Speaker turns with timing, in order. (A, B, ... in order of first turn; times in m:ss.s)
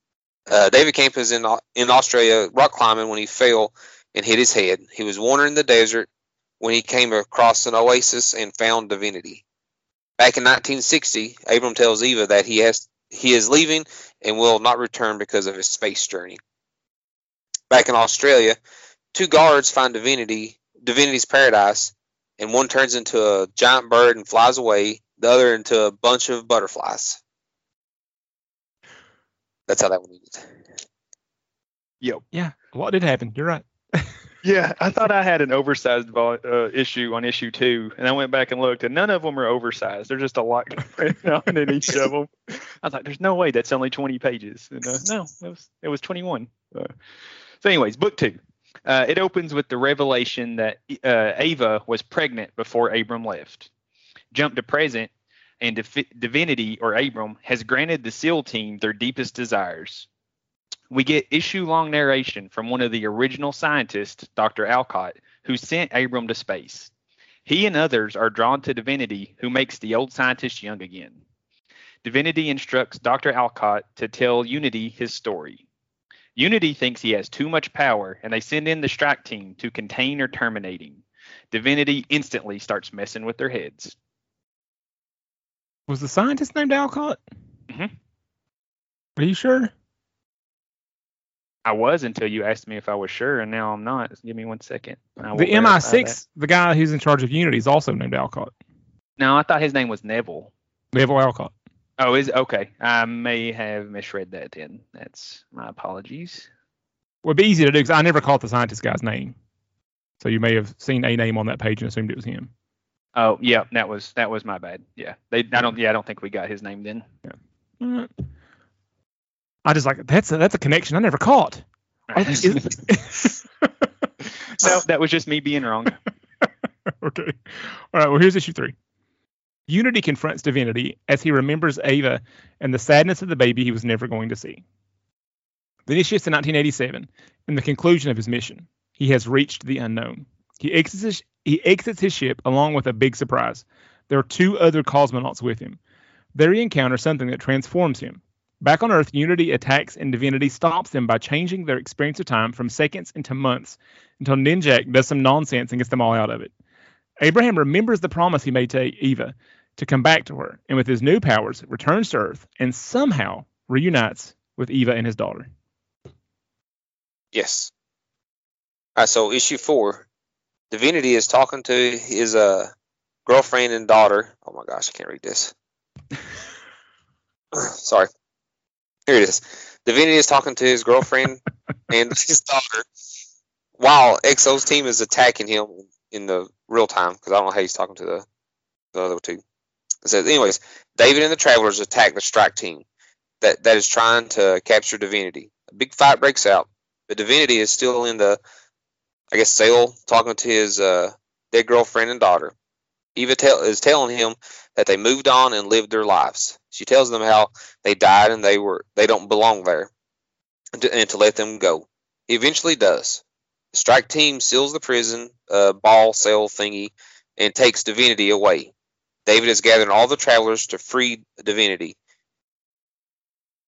0:00.5-0:06.1 A
0:06.6-0:09.4 A
0:10.2-0:16.4 A
0:17.7-0:18.6 A
0:19.1-0:27.2 A
0:29.7-0:30.6 A
0:32.3-0:34.1 B
0:34.4-0:46.9 C
0:47.6-0:53.7 C
0:54.3-0:55.1 C
0:55.6-1:00.1 C
1:00.9-1:06.9 C
1:07.5-1:11.2 C
1:12.0-1:15.6 C
1:16.4-1:24.0 C
1:25.9-1:27.2 B
1:29.2-1:29.7 B
1:31.7-1:36.2 C
1:35.4-1:38.5 B
1:39.2-1:40.5 C
1:40.9-1:41.5 B
1:42.0-1:46.5 C
1:47.2-1:49.4 B
1:50.2-1:52.5 B
1:53.2-1:57.1 C
1:57.8-1:58.1 B
1:59.6-2:03.9 B
2:02.1-2:02.7 C
2:04.6-2:06.0 C
2:07.0-2:08.8 B
2:09.7-2:14.6 B
2:15.9-2:25.8 B
2:26.4-2:36.5 B
2:37.2-2:45.5 B
2:47.3-2:47.7 A
2:49.0-2:50.1 A
2:50.7-2:52.7 A
2:53.3-2:55.5 A
2:57.5-2:58.1 A
2:59.1-3:02.9 A
3:03.8-3:08.3 A
3:08.9-3:09.4 A
3:10.0-3:12.8 A
3:13.4-3:18.4 A
3:19.3-3:22.5 A
3:23.2-3:29.9 A
3:30.8-3:33.2 A
3:33.7-3:38.7 A
3:39.3-3:42.0 A